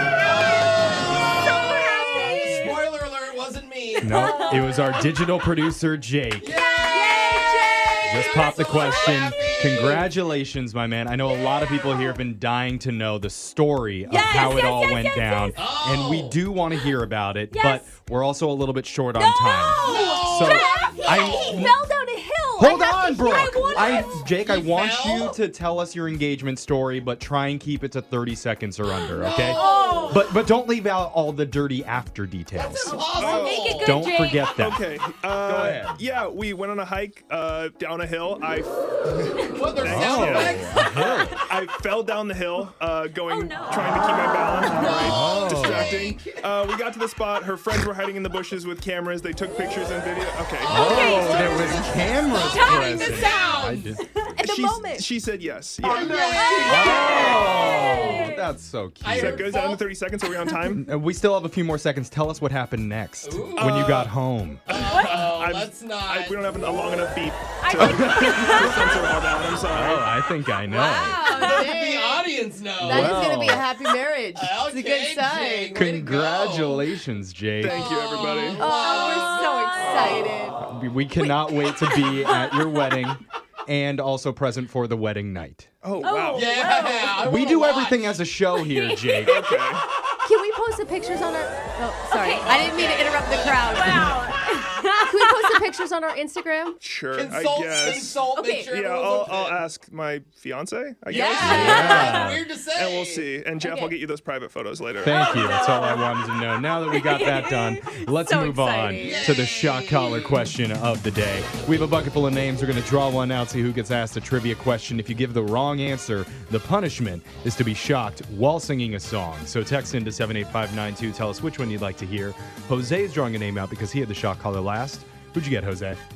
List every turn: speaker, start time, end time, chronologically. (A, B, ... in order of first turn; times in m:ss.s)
0:00.2-0:04.6 A
0:01.4-0:02.8 B
0:04.0-0:05.1 B
0:04.0-0:06.5 C
0:06.4-0:10.1 A
0:06.6-0:10.0 B
0:08.0-0:21.8 C
0:11.5-0:12.2 B
0:14.1-0:15.6 B
0:15.6-0:16.4 A
0:17.5-0:18.0 B
0:19.2-0:24.4 B
0:19.8-0:21.7 A
0:22.6-0:33.0 C
0:24.2-0:25.4 A
0:29.1-0:30.3 A
0:29.4-0:30.4 B
0:32.5-0:34.0 A
0:32.9-0:34.7 B
0:33.2-0:33.8 D
0:33.8-0:34.8 C
0:34.4-0:51.5 D
0:35.4-0:36.0 C
0:39.5-0:41.4 A
0:39.9-0:41.4 C
0:43.3-0:45.8 B
0:44.9-0:46.5 A
0:45.0-0:46.0 C
0:50.6-0:54.3 B
0:50.7-0:54.0 A
0:50.7-0:54.0 C
0:54.3-0:55.1 E
0:54.4-0:56.6 D
0:55.8-0:58.2 A
0:56.0-0:58.5 B
0:56.1-0:57.3 E
0:56.6-0:59.5 C
0:59.0-0:59.7 A
0:59.1-1:00.9 D
1:00.7-1:04.6 C
1:03.2-1:04.1 A
1:03.6-1:04.0 D
1:04.7-1:06.6 A
1:04.9-1:05.3 B
1:04.9-1:10.1 D
1:07.6-1:09.0 B
1:07.8-1:08.4 C
1:08.6-1:09.1 E
1:09.7-1:11.2 C
1:10.6-1:11.8 B
1:10.8-1:13.3 A
1:11.0-1:15.9 E
1:12.8-1:13.7 C
1:14.3-1:17.0 A
1:15.7-1:17.9 C
1:17.6-1:18.7 D
1:17.7-1:20.6 A
1:18.2-1:20.1 B
1:18.5-1:20.6 E
1:20.6-1:25.7 C
1:21.2-1:23.1 B
1:25.8-1:26.5 D
1:26.0-1:27.3 B
1:26.3-1:28.3 A
1:27.2-1:29.4 C
1:28.6-1:29.2 B
1:29.2-1:29.8 D
1:29.3-1:29.6 A
1:30.2-1:36.8 E
1:32.1-1:35.6 B
1:32.4-1:34.2 A
1:36.8-1:45.3 D
1:37.1-1:39.6 A
1:38.3-1:38.7 E
1:41.1-1:43.3 A
1:41.1-1:41.8 E
1:41.4-1:42.5 C
1:41.5-1:42.3 B
1:43.6-1:43.9 B
1:45.0-2:06.0 C
1:45.1-1:49.4 B
1:49.0-1:50.3 A